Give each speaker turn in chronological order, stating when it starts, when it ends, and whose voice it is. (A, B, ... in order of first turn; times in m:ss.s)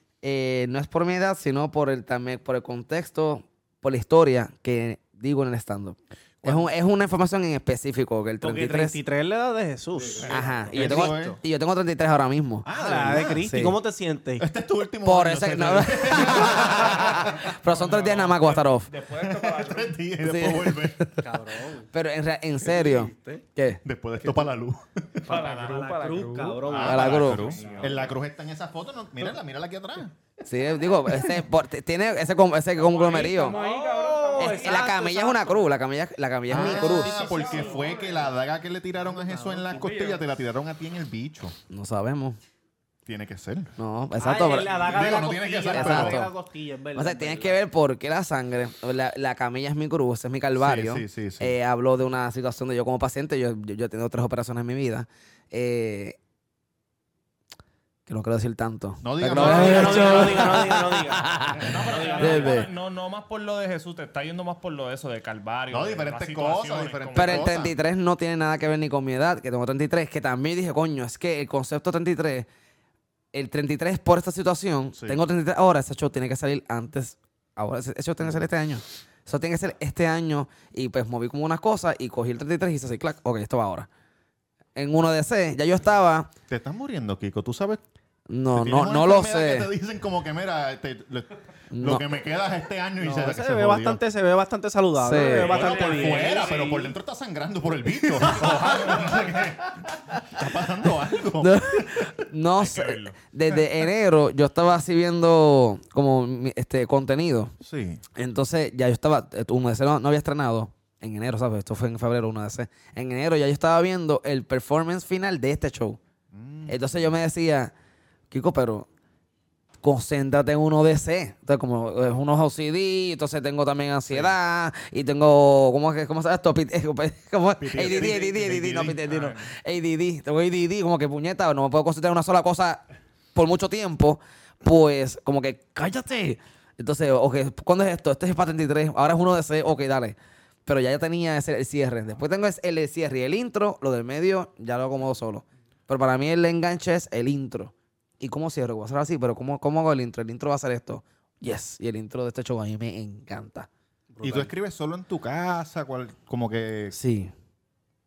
0:00.2-0:09.0 A
0:08.4-0:11.4 B
0:10.0-0:10.7 C
0:10.3-0:13.8 A
0:10.7-0:11.4 D
0:12.6-0:13.4 D
0:12.7-0:14.5 B
0:14.4-0:17.5 D
0:15.0-0:18.9 A
0:17.7-0:18.4 E
0:18.3-0:20.0 C
0:19.1-0:21.1 D
0:20.2-0:21.2 A
0:21.2-0:21.9 B
0:21.9-0:23.8 A
0:22.6-0:23.4 B
0:23.8-0:25.4 D
0:25.2-0:28.1 C
0:25.3-0:28.0 B
0:25.3-0:25.7 E
0:26.6-0:30.1 D
0:26.8-0:27.5 A
0:26.8-0:28.0 E
0:30.4-0:33.6 A
0:33.0-0:35.6 B
0:33.1-0:34.9 C
0:34.4-0:37.1 A
0:36.5-0:41.6 D
0:36.6-0:37.9 B
0:36.7-0:38.3 C
0:39.1-0:40.2 C
0:41.7-0:42.4 A
0:43.1-0:43.7 D
0:43.8-0:46.3 A
0:44.2-0:47.6 B
0:44.8-0:46.3 D
0:47.0-0:56.2 A
0:50.6-0:51.5 D
0:58.1-1:02.7 A
0:59.0-1:00.6 D
0:59.3-1:02.5 B
1:01.6-1:07.5 E
1:05.7-1:07.8 D
1:07.2-1:12.5 A
1:13.3-1:23.9 A
1:14.9-1:15.2 D
1:24.8-1:26.3 A
1:26.5-1:27.8 D
1:28.3-1:29.7 A
1:28.5-1:34.0 D
1:31.7-1:32.0 A
1:33.0-1:36.8 B
1:35.0-1:35.5 A
1:35.2-1:36.6 C
1:35.4-1:42.1 D
1:35.6-1:36.5 E
1:41.4-1:47.5 A
1:42.6-1:43.2 E
1:47.6-1:48.0 D
1:48.2-1:56.0 A
1:56.3-1:56.9 D
1:56.7-1:57.7 A
1:58.3-1:58.9 A
1:59.8-2:12.8 A
2:04.1-2:04.4 D
2:07.6-2:09.0 D
2:09.0-2:09.5 E
2:13.4-2:33.7 A
2:34.1-2:34.5 B
2:34.2-2:37.0 D
2:36.9-2:37.3 A